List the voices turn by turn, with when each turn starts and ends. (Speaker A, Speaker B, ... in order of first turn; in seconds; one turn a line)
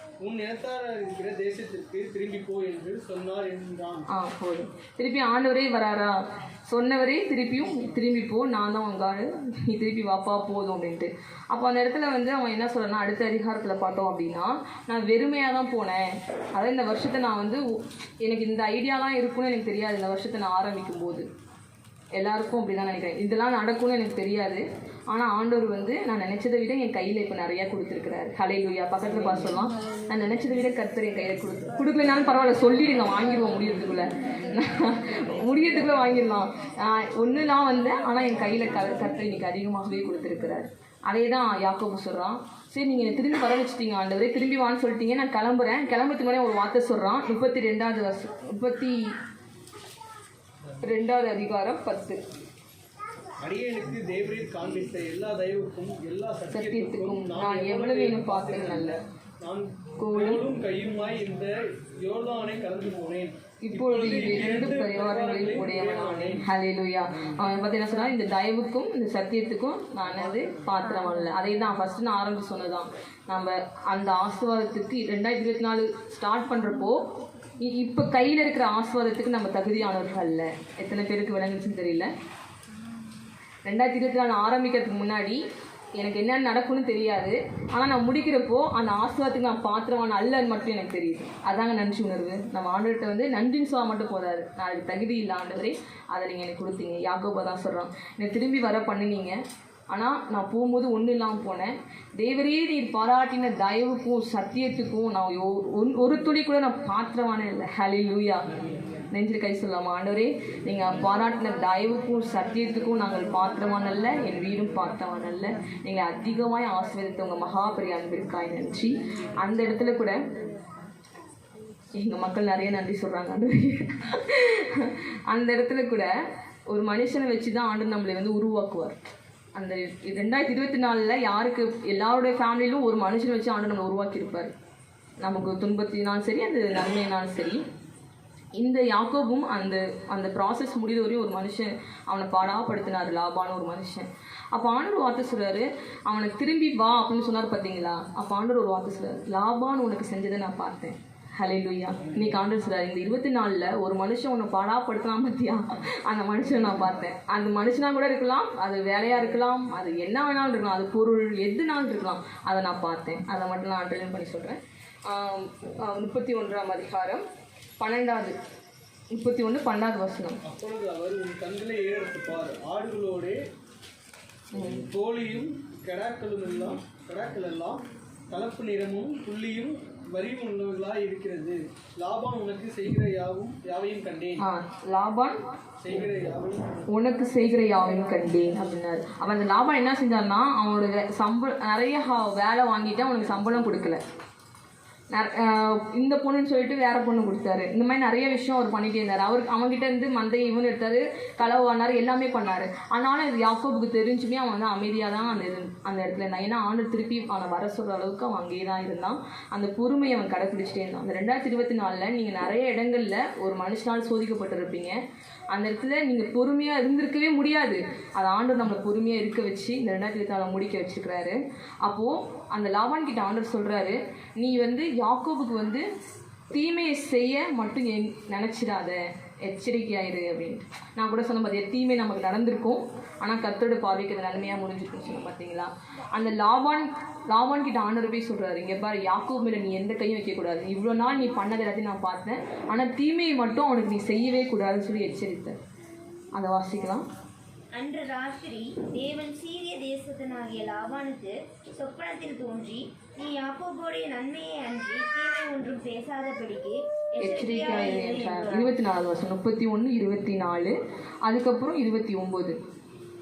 Speaker A: 0.2-4.1
Speaker B: 4.1-21.3
Speaker B: 22.2-49.0
Speaker B: 50.8-52.2
Speaker A: 53.4-66.4
Speaker B: 56.5-59.0
Speaker B: 60.0-60.4
Speaker B: 63.6-77.0
Speaker B: 77.6-82.1
Speaker B: 83.7-85.4
Speaker B: 86.0-99.4
Speaker B: 99.9-108.5
Speaker B: 109.1-120.2
Speaker B: 122.0-126.1
Speaker B: 126.7-129.0
Speaker B: 129.6-134.5
Speaker B: 135.2-137.6
Speaker B: 138.6-167.2
Speaker B: 167.8-168.4
Speaker B: 169.1-170.4
Speaker A: 170.5-173.4
Speaker B: 174.5-174.9
Speaker A: 174.6-184.4
Speaker B: 184.4-185.4
Speaker A: 185.8-186.7
Speaker B: 186.9-194.0
Speaker B: 195.1-215.0
Speaker B: 215.5-225.9
Speaker B: 226.5-245.6
Speaker B: 246.3-247.1
Speaker C: 247.7-258.7
Speaker B: 257.2-262.6